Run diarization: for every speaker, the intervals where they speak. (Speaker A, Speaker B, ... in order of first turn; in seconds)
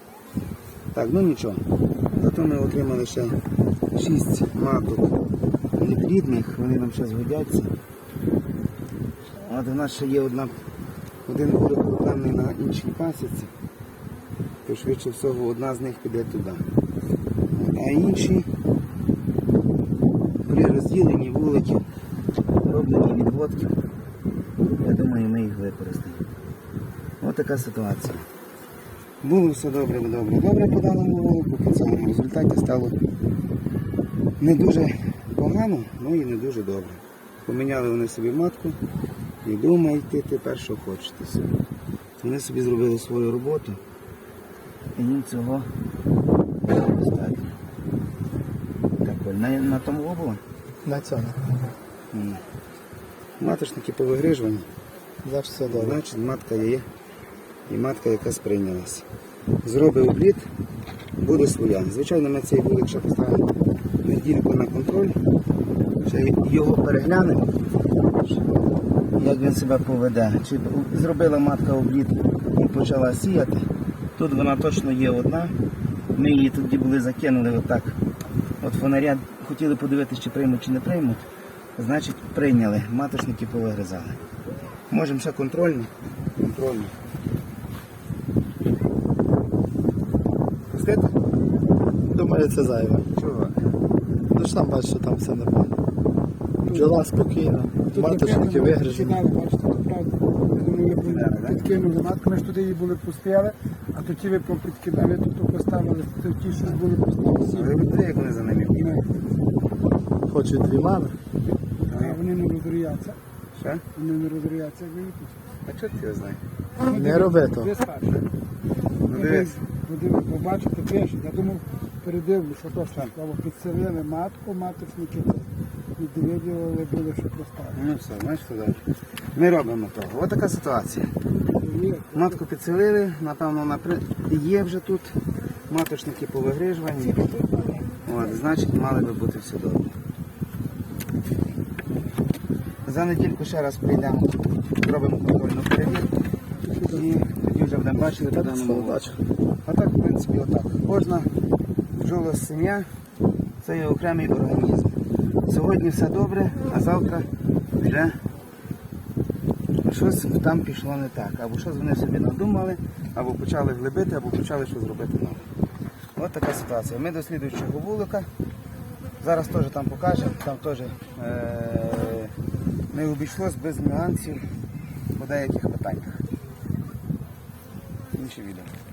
Speaker A: 0.9-3.4, 3.9-5.2, 5.8-7.7, 9.4-10.6, 11.3-13.5, 14.7-16.6, 17.5-18.5, 20.4-21.9, 22.6-23.8, 24.8-26.3, 27.2-28.3, 29.2-33.0, 34.4-38.8, 39.4-41.5, 42.2-43.8, 45.0-45.7, 46.6-47.5, 49.0-50.4, 52.1-52.4, 53.4-54.7, 55.7-56.9, 57.7-59.0, 59.6-60.5, 61.2-63.5, 64.0-65.2, 66.0-67.5, 69.2-75.5, 76.2-78.0, 78.6-84.2, 84.9-86.9, 90.7-91.2, 93.1-93.6, 101.0-101.7, 107.4-109.1, 111.8-112.2, 113.6-113.8, 115.7-116.4, 119.0-119.6, 127.8-128.8, 129.3-131.1, 132.1-135.2, 135.7-137.4, 138.0-139.9, 142.8-146.1, 146.8-149.0, 149.7-151.3, 151.9-152.9, 153.6-158.2, 159.8-165.5, 166.2-168.3, 169.2-172.3, 172.9-174.5, 175.1-176.2, 178.1-178.7
Speaker B: 50.8-51.4, 55.2-56.0, 92.1-93.1, 94.3-95.7, 96.7-99.2, 110.3-111.2, 116.9-117.8, 148.3-149.2
Speaker C: 96.7-97.0, 97.9-107.8, 111.9-113.2, 113.9-115.4, 116.8-118.2, 119.1-127.8, 131.6-132.4, 146.8-147.0